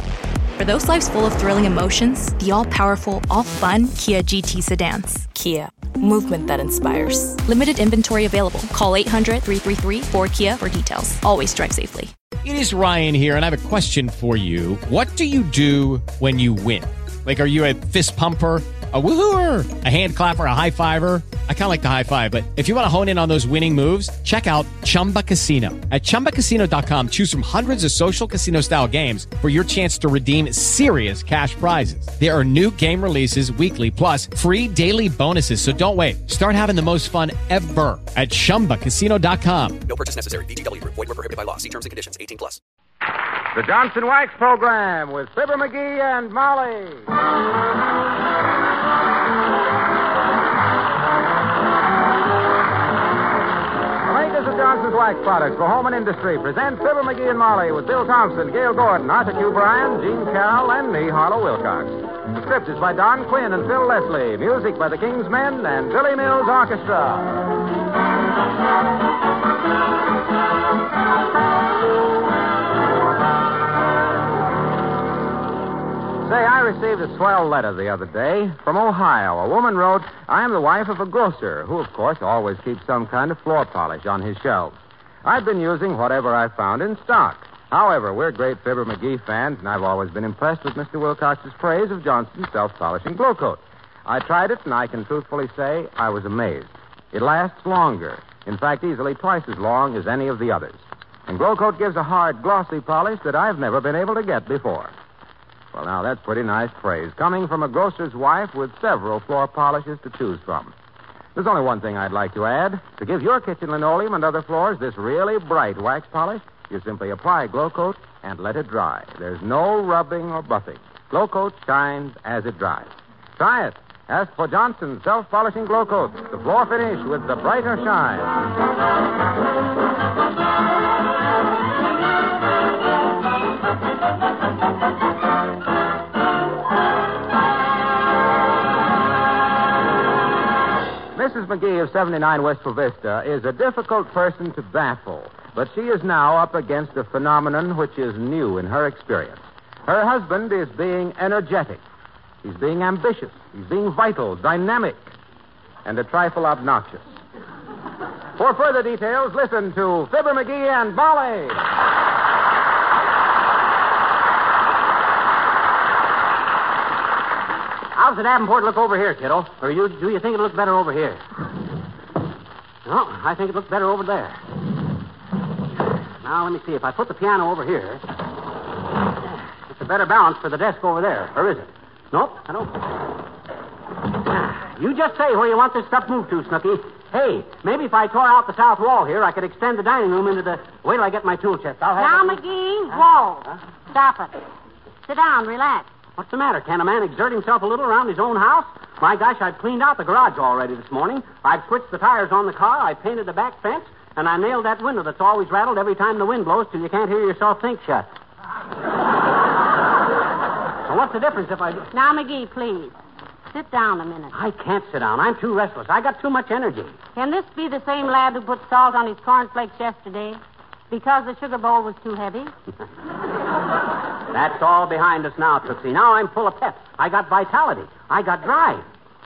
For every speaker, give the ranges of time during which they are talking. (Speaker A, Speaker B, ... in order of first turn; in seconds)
Speaker A: 0.6-12.1
Speaker B: 12.4-39.9
Speaker C: 39.9-42.6
Speaker D: 43.5-47.1, 54.0-67.4, 76.2-104.9, 105.7-110.8, 111.3-128.3, 141.1-151.8, 152.4-155.1, 155.8-157.2, 158.4-161.6
Speaker E: 167.9-171.2, 172.8-174.4, 176.2-178.0, 179.7-182.8, 184.3-192.4, 196.2-208.1, 210.9-211.9, 214.3-216.9, 224.3-228.8
Speaker F: 192.0-194.4, 195.1-195.9, 211.9-212.9, 213.5-214.4, 217.2-220.4, 220.9-222.5